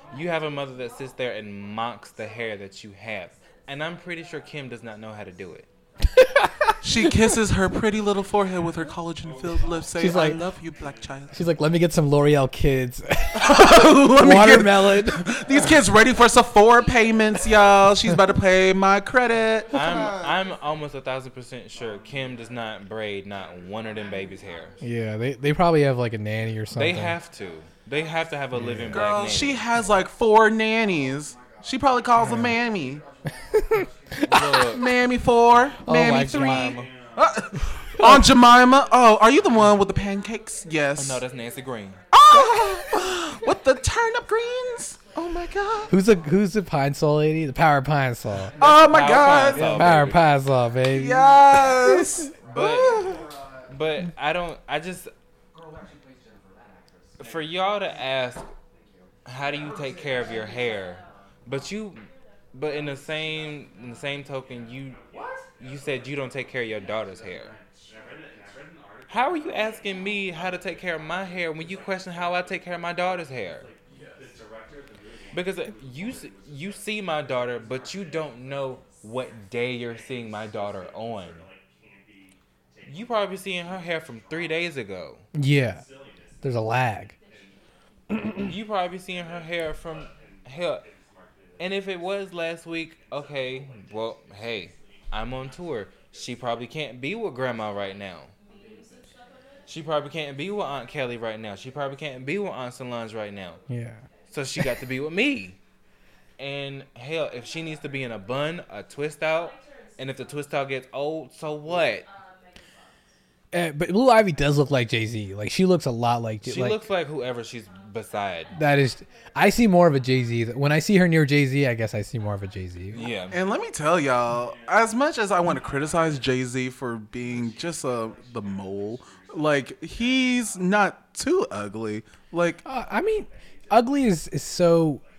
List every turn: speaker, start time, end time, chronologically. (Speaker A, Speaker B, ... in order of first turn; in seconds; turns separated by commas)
Speaker A: 0.1-5.7, Speaker B: 6.2-7.1, Speaker C: 6.8-11.4, Speaker B: 10.0-10.4, Speaker B: 11.3-15.3, Speaker C: 13.3-20.2, Speaker A: 19.7-24.8, Speaker B: 24.8-27.1, Speaker A: 26.8-29.6, Speaker B: 28.5-29.1, Speaker C: 28.9-33.0, Speaker B: 32.2-32.5, Speaker B: 33.5-34.6, Speaker A: 34.2-34.9, Speaker C: 34.5-41.2, Speaker B: 35.8-36.8, Speaker A: 35.9-36.9, Speaker B: 38.0-38.3, Speaker A: 41.0-42.0, Speaker C: 42.1-45.9, Speaker B: 42.3-42.9, Speaker B: 45.9-48.5, Speaker C: 48.6-50.0, Speaker A: 48.6-50.2, Speaker B: 49.6-51.3, Speaker C: 50.9-53.3, Speaker A: 52.4-53.1, Speaker A: 53.7-55.1, Speaker A: 57.2-58.5, Speaker A: 59.2-65.0, Speaker A: 65.6-67.6, Speaker A: 69.1-73.7, Speaker A: 75.3-81.5, Speaker A: 82.8-85.2, Speaker B: 85.3-85.8, Speaker B: 86.4-87.1, Speaker B: 88.1-88.5, Speaker A: 88.5-90.9, Speaker A: 91.6-98.3, Speaker A: 99.7-103.6, Speaker B: 103.7-104.0, Speaker A: 104.3-105.6, Speaker A: 106.4-112.1, Speaker B: 113.5-116.8, Speaker A: 116.4-118.5, Speaker B: 118.5-123.0, Speaker A: 122.9-123.4, Speaker C: 123.3-132.6, Speaker B: 132.6-135.0